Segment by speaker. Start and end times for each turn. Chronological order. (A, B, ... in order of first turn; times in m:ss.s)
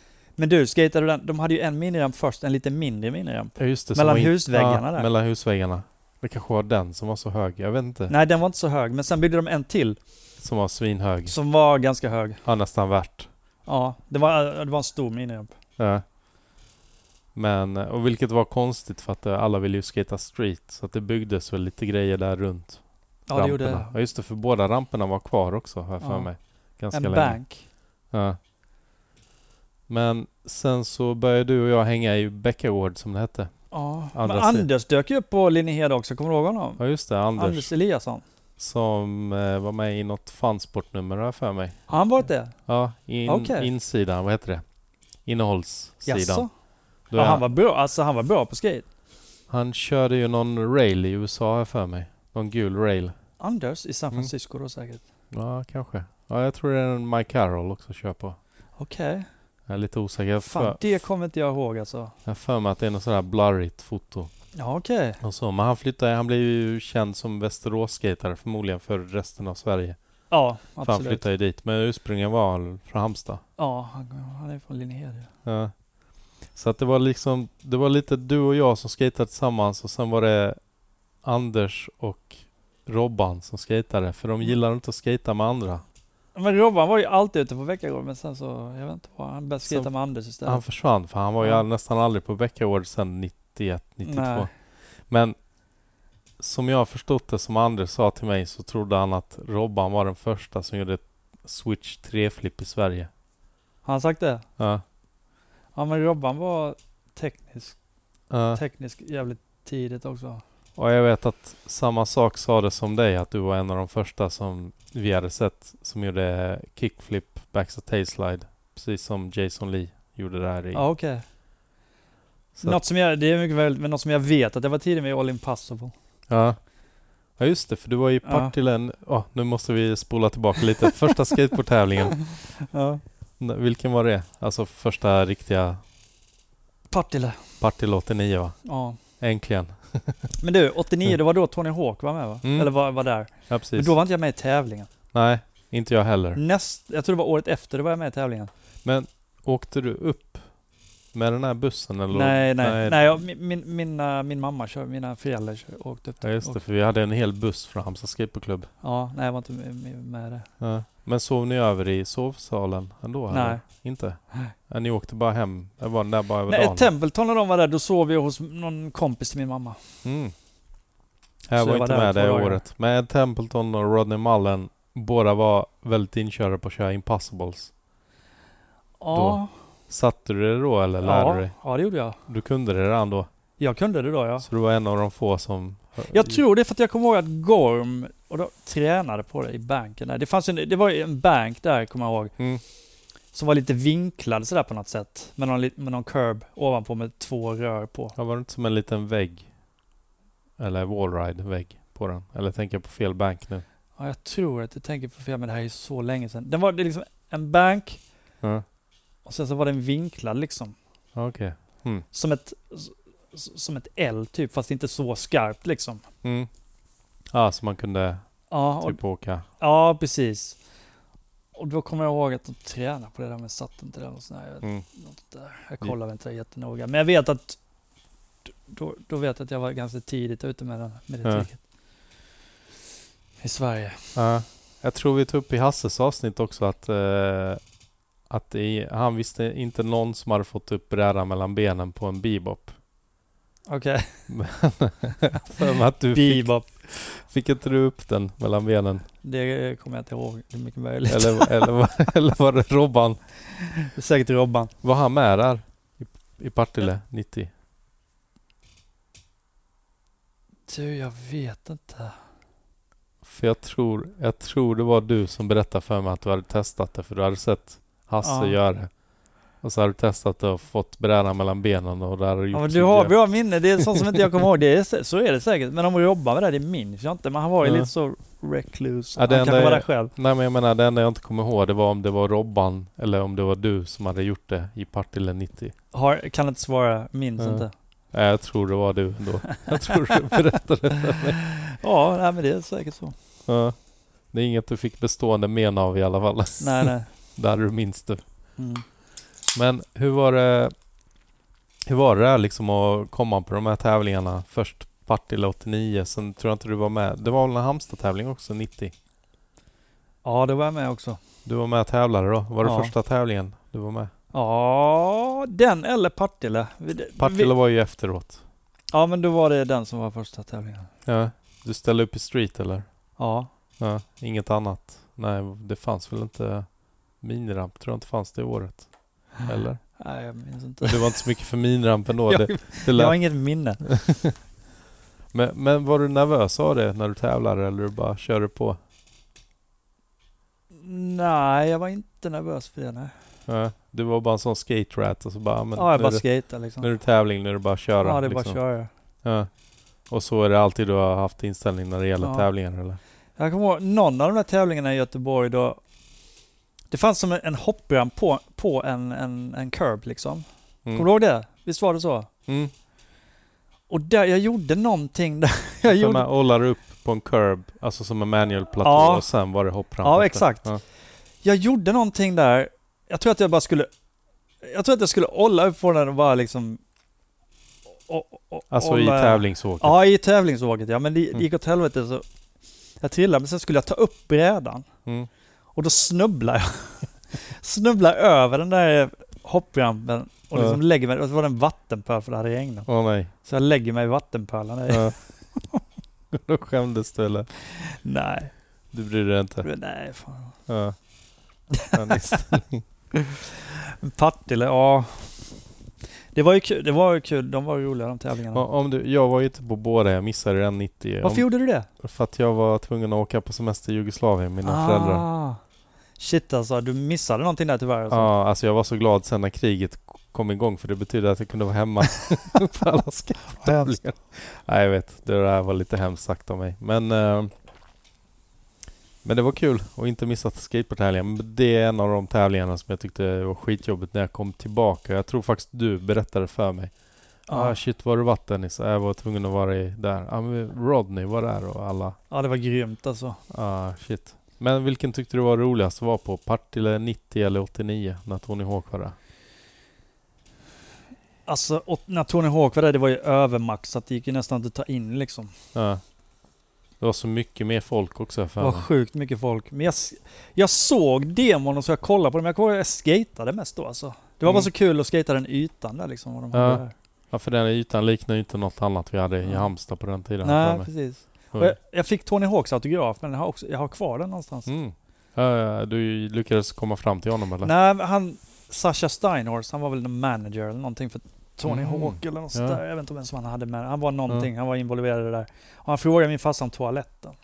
0:00.4-0:05.1 A
0:03.6-0:08.1 B
0:08.1-0:10.0 A
0:10.4-0:11.3 B
0:11.3-0:12.4 A
0:12.4-0:13.3 B
0:13.7-0:15.5 A
0:15.8-0:16.0 B
0:17.3-0:22.8 B
0:23.3-0:23.9 A
0:23.3-0:27.4 B
0:26.0-0:26.3 A
0:26.9-0:27.6 A
0:28.1-0:28.4 B
0:29.9-0:33.5 B
0:33.7-0:36.8 A
0:34.1-0:34.7 B
0:36.8-0:37.7 B
0:37.3-0:38.2 A
0:38.6-0:41.8 B
0:41.9-0:42.5 A
0:42.7-0:44.6 B
0:43.2-0:43.7 A
0:45.2-0:46.5 B
0:46.0-0:46.5 A
0:47.1-0:47.4 B
0:47.1-0:48.8 A
0:49.5-0:53.1 B
0:53.4-0:55.0 A
0:55.3-0:58.4 B
0:58.8-0:59.3 A
0:59.7-1:00.9 B
1:00.4-1:02.1 A
1:02.2-1:04.3 B
1:04.6-1:05.2 A
1:05.2-1:10.0 B
1:10.3-1:11.2 A
1:10.8-1:13.4 B
1:13.6-1:15.3 A
1:15.4-1:15.7 B
1:16.5-1:20.6 B
1:21.2-1:25.8 B
1:26.4-1:30.6 A
1:30.4-1:34.5 B
1:34.0-1:34.5 A
1:35.1-1:35.4 B
1:36.4-1:43.1 B
1:43.8-1:44.4 A
1:44.6-1:44.8 B
1:45.7-1:47.8 A
1:48.3-1:48.6 B
1:48.5-1:50.4 A
1:50.8-2:00.8 B
2:00.7-2:01.2 A
2:02.5-2:02.8 B
2:02.6-2:05.9 A
2:06.3-2:06.6 B
2:07.4-2:12.2 B
2:08.2-2:08.5 A
2:12.3-2:13.0 A
2:13.4-2:15.8 B
2:16.9-2:17.4 A
2:17.6-2:18.6 B
2:18.6-2:19.0 A
2:19.2-2:20.3 B
2:20.4-2:24.9 A
2:22.4-2:22.7 B
2:23.5-2:23.9 B
2:25.1-2:26.4 B
2:26.3-2:28.5 A
2:28.8-2:30.5 B
2:31.1-2:33.0 B
2:32.1-2:36.6 A
2:36.2-2:38.7 B
2:38.8-2:40.5 A
2:40.6-2:46.9 B
2:43.3-2:43.6 A
2:46.5-2:49.8 A
2:50.0-2:50.3 B
2:51.5-2:57.7 B
2:51.6-2:52.6 A
2:59.0-2:59.5 A
2:59.1-3:01.5 B
3:01.0-3:02.2 A
3:02.3-3:03.3 B
3:03.6-3:04.5 A
3:04.4-3:06.4 B
3:06.1-3:12.3 A
3:12.4-3:12.6 B
3:13.3-3:18.2 A
3:18.2-3:19.5 B
3:20.6-3:23.6 B
3:24.0-3:28.0 A
3:29.2-3:30.8 A
3:31.1-3:32.0 B
3:32.1-3:36.0 A
3:36.2-3:36.5 B
3:37.3-3:38.2 B
3:38.5-3:39.0 A
3:38.8-3:39.4 B
3:39.6-3:40.6 A
3:41.6-3:47.6 A
3:48.7-3:51.6 A
3:53.4-3:54.1 A
3:54.1-3:57.6 B
3:58.3-4:02.8 B
4:03.7-4:04.2 A
4:04.3-4:09.1 B
4:06.1-4:06.7 A
4:09.2-4:11.7 A
4:11.1-4:13.2 B
4:13.5-4:14.7 A
4:14.8-4:17.5 B
4:20.7-4:22.2 A
4:23.2-4:28.9 B
4:28.2-4:28.6 A
4:29.6-4:33.2 B
4:32.5-4:40.1 A
4:33.8-4:34.4 B
4:37.6-4:37.9 B
4:39.2-4:45.7 B
4:45.9-4:47.7 A
4:47.4-4:51.4 B
4:51.1-4:53.1 A
4:53.5-4:53.8 B
4:54.3-4:58.2 B
4:56.6-4:57.1 A
4:58.6-4:58.8 A
4:59.5-5:00.7 B
5:01.9-5:08.9 B
5:10.2-5:11.2 A
5:11.4-5:14.1 B
5:12.6-5:12.9 A
5:14.3-5:17.5 A
5:17.2-5:18.4 B
5:18.9-5:20.9 A
5:21.0-5:22.8 B
5:23.2-5:23.5 A
5:23.8-5:26.6 B
5:27.2-5:28.9 B
5:29.4-5:29.8 B
5:30.0-5:31.2 A
5:30.8-5:33.2 B
5:32.3-5:33.8 A
5:33.8-5:34.3 B
5:35.3-5:38.8 B
5:40.7-5:43.1 A
5:43.5-5:46.2 B
5:45.8-5:46.9 A
5:46.8-5:48.6 B
5:48.0-5:48.9 A
5:49.2-5:49.5 B
5:50.1-5:53.0 B
5:52.2-5:52.5 A
5:53.4-5:55.8 A
5:56.9-6:02.3 A
6:02.5-6:02.7 B
6:03.9-6:06.3 A
6:05.8-6:10.8 B
6:08.8-6:09.3 A
6:10.0-6:10.7 A
6:11.4-6:13.9 A
6:14.6-6:16.8 A
6:18.1-6:22.2 A
6:18.7-6:20.0 B
6:23.0-6:24.8 A
6:25.7-6:32.9 A
6:30.5-6:30.8 B
6:32.9-6:33.3 B
6:33.4-6:35.8 A
6:34.9-6:35.1 B
6:36.3-6:37.5 B
6:37.6-6:38.5 A
6:38.9-6:39.7 B
6:39.6-6:40.6 A
6:40.7-6:41.0 B
6:41.7-6:42.4 A
6:41.9-6:42.8 B
6:43.1-6:45.5 A
6:46.3-6:48.6 A
6:48.5-6:51.4 B
6:51.2-6:51.9 A
6:52.0-6:55.2 B
6:54.6-6:55.6 A
6:56.2-6:58.3 A
6:58.1-7:07.5 B
7:03.6-7:04.0 A
7:09.2-7:16.9 B
7:17.5-7:22.2 B
7:17.5-7:17.8 A
7:22.3-7:23.4 A
7:23.5-7:29.2 B
7:31.4-7:35.5 A
7:35.7-7:36.0 B
7:37.0-7:38.9 B
7:38.6-7:46.9 A
7:46.5-7:50.9 B
7:49.4-7:49.7 A
7:50.4-7:54.7 A
7:54.6-7:57.7 B
7:57.6-8:07.4 A
8:01.6-8:02.8 B